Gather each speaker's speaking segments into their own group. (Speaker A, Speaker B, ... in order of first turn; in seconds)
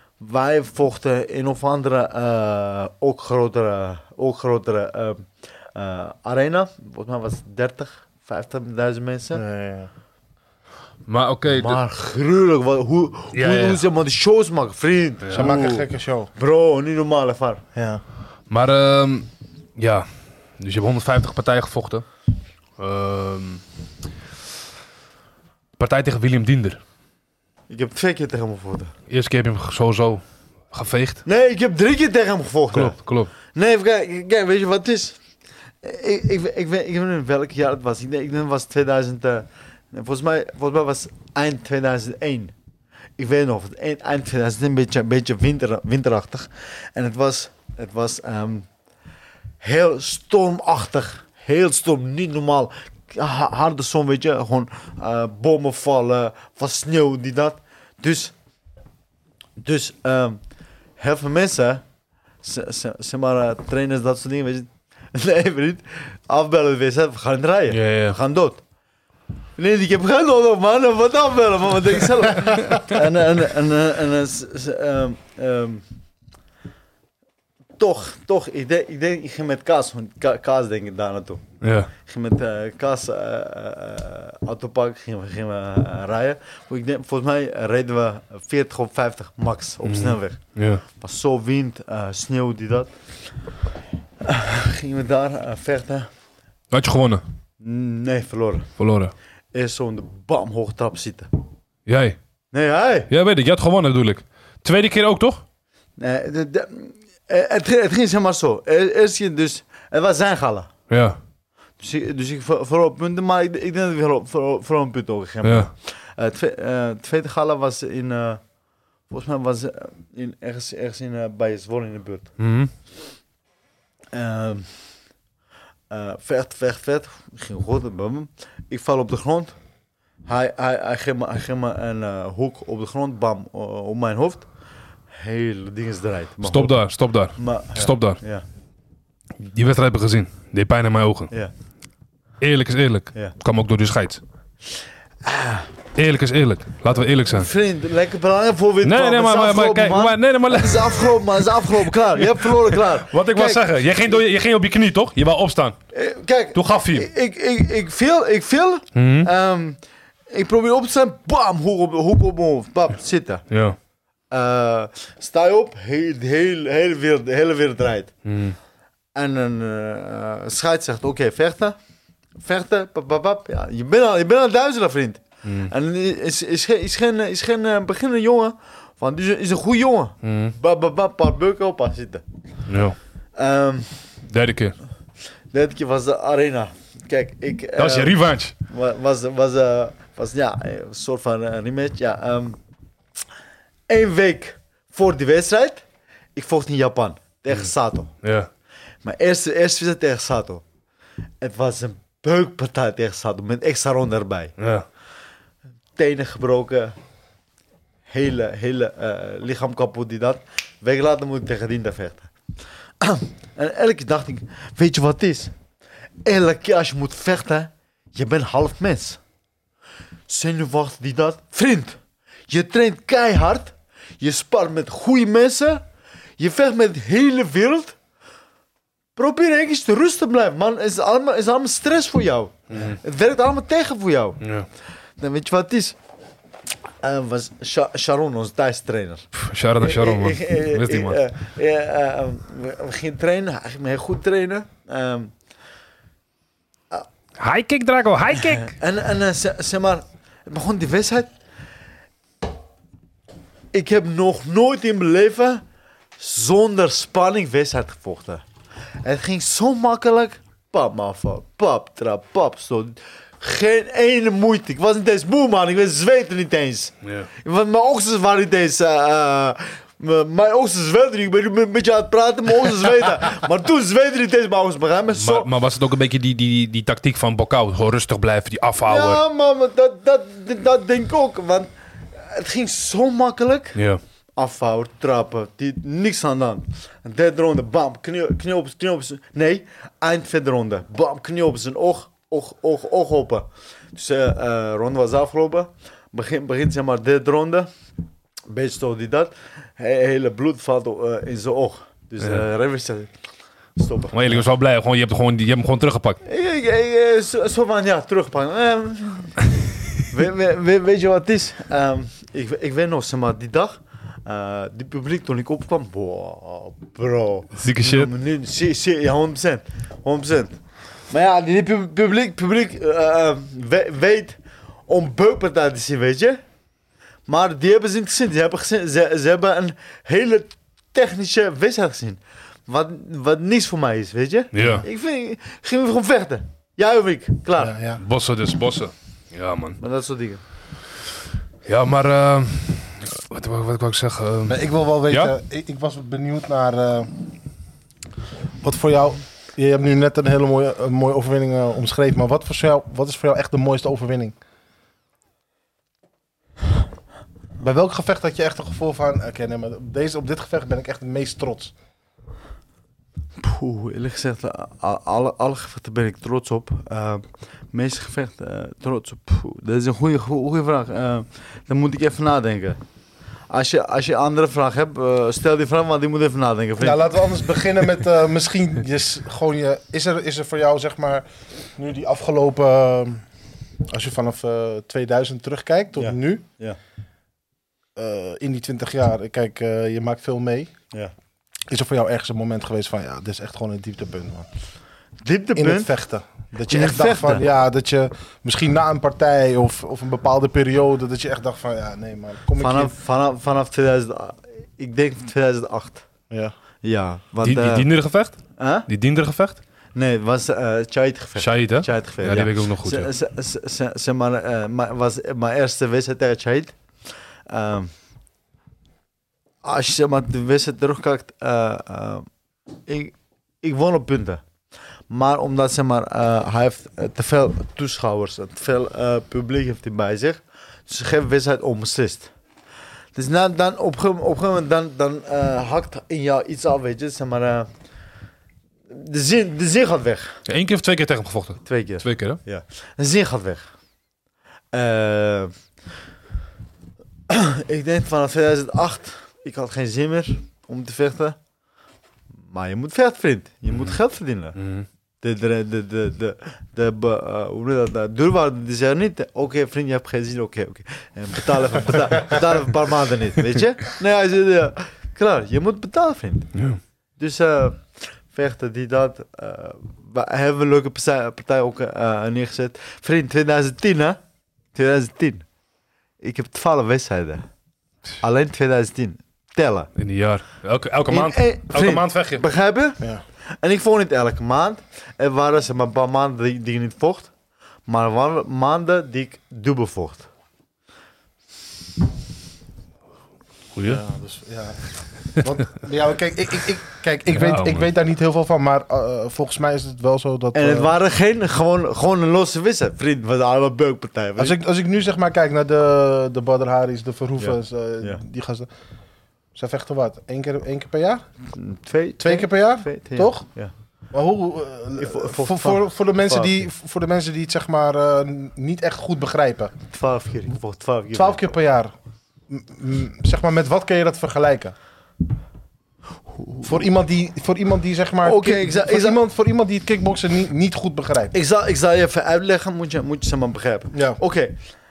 Speaker A: 0.2-9.4, 11.5-17.6, 27.7-28.9, 31.2-35.2, 35.8-42.5, 43.2-48.7, 49.6-58.3, 59.6-60.4, 61.0-61.8, 62.4-68.6, 69.6-75.8, 77.8-81.4, 82.0-90.4, 91.0-92.9, 94.2-96.1, 97.6-98.7, 99.5-101.3, 102.5-103.1, 106.0-110.7, 111.8-118.4, 119.1-122.3, 124.1-124.7, 125.9-129.5, 130.2-134.5, 135.1-136.8, 137.4-138.4, 145.2-145.7, 147.2-153.7, 155.9-159.8, 160.3-163.4, 164.3-168.1, 169.1-171.8, 172.4-182.2, 183.3-183.9, 185.5-192.6, 193.9-195.8, 196.3-198.1, 199.0-200.6, 201.4-204.5, 206.0-206.9, 208.1-212.3, 213.0-215.5, 216.2-219.2, 220.3-225.8, 226.4-227.9, 229.2-234.4, 235.2-235.9, 237.0-239.3, 239.8-245.3, 248.5-251.3, 253.7-255.6, 256.2-258.4, 259.0-275.5, 278.8-283.8, 284.4-297.7, 298.5-303.1, 303.8-304.3, 306.2-309.4, 310.0-320.6, 321.1-324.4, 324.9-326.4, 327.3-337.7, 339.8-340.4, 363.4-372.8, 373.5-377.1, 385.9-386.8, 395.2-395.9, 396.7-397.4, 402.6-406.1, 406.8-407.9, 408.6-408.9, 409.9-416.8, 417.5-417.9, 419.6-422.3, 422.9-424.4, 425.1-432.3, 433.1-437.7, 438.9-440.4, 441.6-443.7, 444.7-445.5, 447.3-451.4, 452.5-454.6, 455.2-466.5, 467.2-474.2, 474.7-475.4, 476.2-477.4, 478.2-479.9, 481.1-483.1, 483.6-487.3, 487.9-490.3, 500.5-504.6, 507.4-508.2, 511.5-513.7, 515.0-516.6, 519.9-521.5, 526.4-526.7, 528.2-529.2, 531.3-534.5
Speaker B: 9.3-9.9, 15.3-16.3, 17.7-18.0, 337.6-338.0, 344.4-347.1, 348.6-354.3, 357.6-361.7, 376.8-383.2, 383.9-386.4, 387.9-390.7, 391.7-394.5, 395.6-402.9, 493.9-500.9, 504.4-508.7, 509.5-511.2, 512.2-513.5, 514.1-519.7, 521.1-521.9, 522.5-524.7, 526.6-531.3, 533.9-534.2
Speaker C: 11.1-11.8, 13.3-13.8, 15.2-15.5, 18.5-20.1, 20.6-22.1, 22.8-23.6, 25.8-26.8, 29.1-31.2, 32.7-33.3, 67.7-68.2, 81.6-81.9, 89.8-90.8, 96.7-97.2, 98.8-99.1, 101.9-102.2, 103.1-105.4, 110.9-111.2, 115.4-115.7, 122.4-122.7, 136.4-138.2, 139.4-141.3, 142.4-144.2, 145.9-147.5, 148.8-155.8, 156.5-157.1, 158.9-159.3, 163.5-163.8, 168.2-168.6, 175.4-175.7, 180.2-180.5, 182.7-183.0, 184.3-184.8, 187.8-188.5, 198.2-198.5, 204.6-204.8, 232.7-233.0, 234.4-234.7, 239.3-241.2, 247.4-248.7, 275.1-279.2, 283.7-284.0, 304.1-306.2, 317.6-318.1, 334.5-334.8, 338.0-339.8, 341.6-345.3, 407.4-409.6, 411.4-413.1, 440.5-442.4, 454.6-454.9, 466.5-466.8, 479.9-482.4, 493.7-494.0, 497.3-497.9